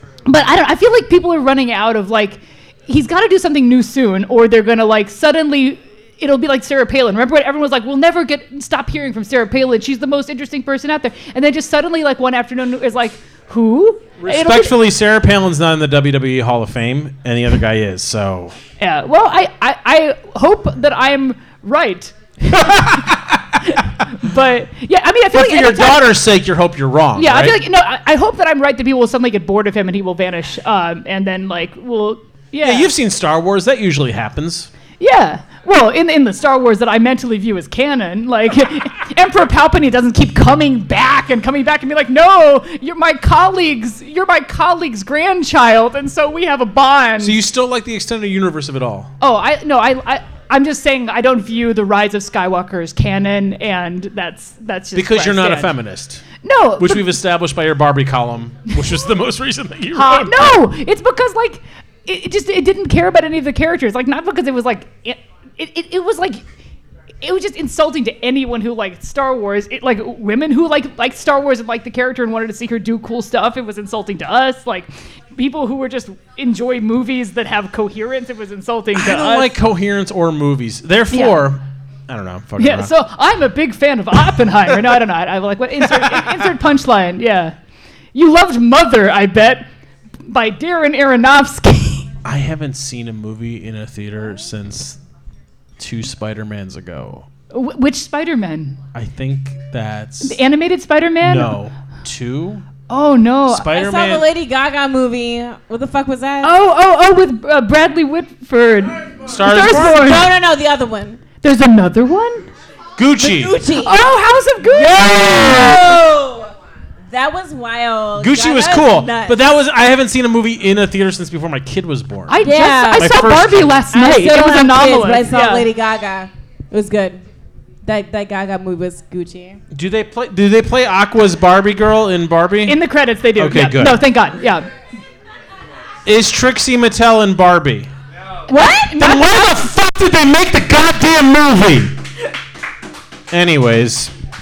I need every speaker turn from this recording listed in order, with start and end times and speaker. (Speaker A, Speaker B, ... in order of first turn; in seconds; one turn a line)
Speaker A: 0.2-14.8
Speaker B: 14.2-18.6
Speaker A: 18.8-23.0
Speaker B: 22.5-23.6
Speaker A: 23.6-26.2
Speaker B: 25.3-27.6
Speaker A: 27.1-32.9
Speaker B: 32.6-34.7
Speaker A: 35.0-47.4
Speaker B: 47.2-49.1
Speaker A: 49.2-55.7
Speaker B: 54.9-56.2
Speaker A: 56.4-57.1
Speaker B: 56.8-60.6
Speaker A: 59.9-66.4
Speaker A: 67.2-79.6
Speaker B: 78.9-82.9
Speaker A: 81.1-81.4
Speaker A: 82.6-87.5
Speaker B: 86.0-86.3
Speaker A: 88.1-89.7
Speaker A: 90.2-92.1
Speaker B: 92.2-95.0
Speaker B: 95.8-97.3
Speaker A: 97.5-98.8
Speaker B: 98.9-100.4
Speaker A: 100.2-101.5
Speaker B: 101.2-102.7
Speaker A: 102.9-103.7
Speaker B: 103.5-104.2
Speaker C: 103.7-106.5
Speaker A: 106.4-110.3
Speaker B: 109.2-110.0
Speaker C: 109.7-111.2
Speaker A: 111.4-112.5
Speaker B: 113.0-113.6
Speaker C: 113.2-114.1
Speaker A: 113.7-115.9
Speaker C: 114.7-116.5
Speaker B: 114.9-115.8
Speaker C: 117.1-119.4
Speaker B: 118.2-122.4
Speaker A: 122.3-125.7
Speaker C: 122.4-123.3
Speaker B: 123.0-123.8
Speaker C: 123.9-127.2
Speaker C: 127.8-129.6
Speaker B: 129.7-132.8
Speaker A: 132.7-134.7
Speaker B: 133.4-134.0
Speaker B: 136.1-137.9
Speaker C: 138.5-139.1
Speaker A: 138.7-139.6
Speaker B: 139.0-141.9
Speaker B: 143.3-144.1